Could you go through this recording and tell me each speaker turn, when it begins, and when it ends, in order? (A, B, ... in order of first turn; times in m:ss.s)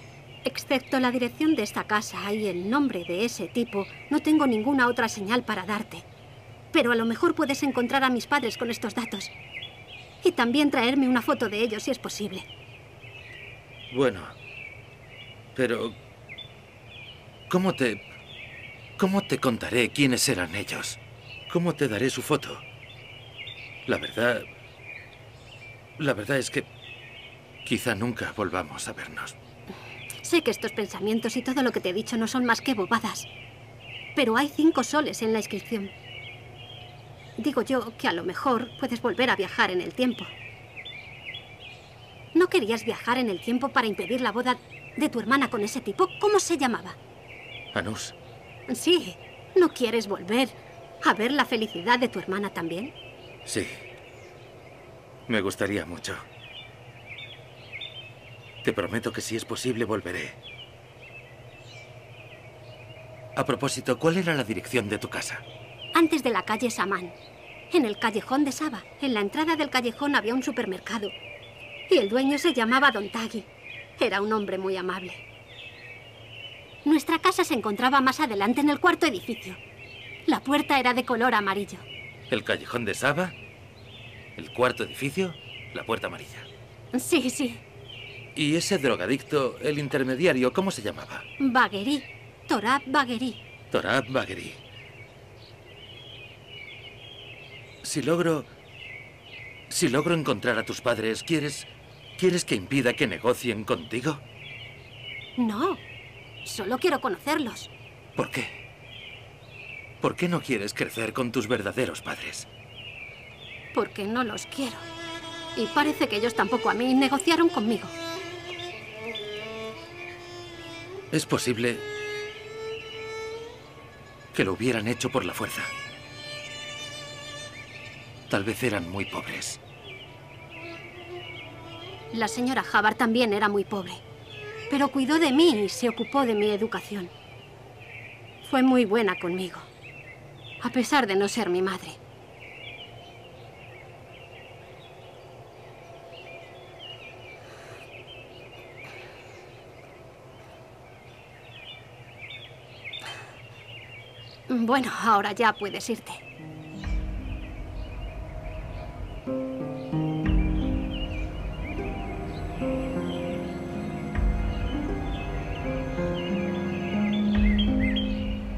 0:00.4-0:06.1 A
0:06.7-0:09.3 A
0:10.2-0:12.5 A
0:13.9-0:14.3 B
0:15.6-0:16.0 B
0:17.5-0:18.0 B
0:19.0-0:22.6 B
0:23.9-0:24.5 B
0:26.0-0:26.7 B
0:27.6-0:29.4 B
0:30.2-0:33.3 A
0:34.2-0:35.9 A
0:37.4-0:40.3 A
0:42.4-0:47.0 A
0:47.7-0:48.1 B
0:48.7-0:52.9 A
0:53.4-0:53.8 B
0:55.3-0:56.2 B
0:58.6-1:00.4 B
1:03.4-1:05.4 B
1:05.9-1:07.1 A
1:07.7-1:11.1 A
1:11.9-1:15.2 A
1:16.8-1:19.6 A
1:20.3-1:21.8 A
1:22.3-1:23.4 B
1:24.4-1:26.5 B
1:26.9-1:27.6 A
1:28.4-1:31.2 B
1:31.4-1:33.4 A
1:33.7-1:34.6 B
1:37.8-1:38.5 B
1:39.7-1:44.2 B
1:45.4-1:45.8 A
1:46.4-1:47.7 A
1:48.2-1:48.6 B
1:50.0-1:52.5 B
1:53.7-1:54.8 A
1:55.6-1:57.9 A
2:01.1-2:01.8 B
2:04.3-2:05.7 B
2:08.3-2:09.6 B
2:12.1-2:14.0 A
2:14.7-2:17.1 A
2:18.4-2:19.7 A
2:20.6-2:22.0 A
2:34.5-2:36.2 A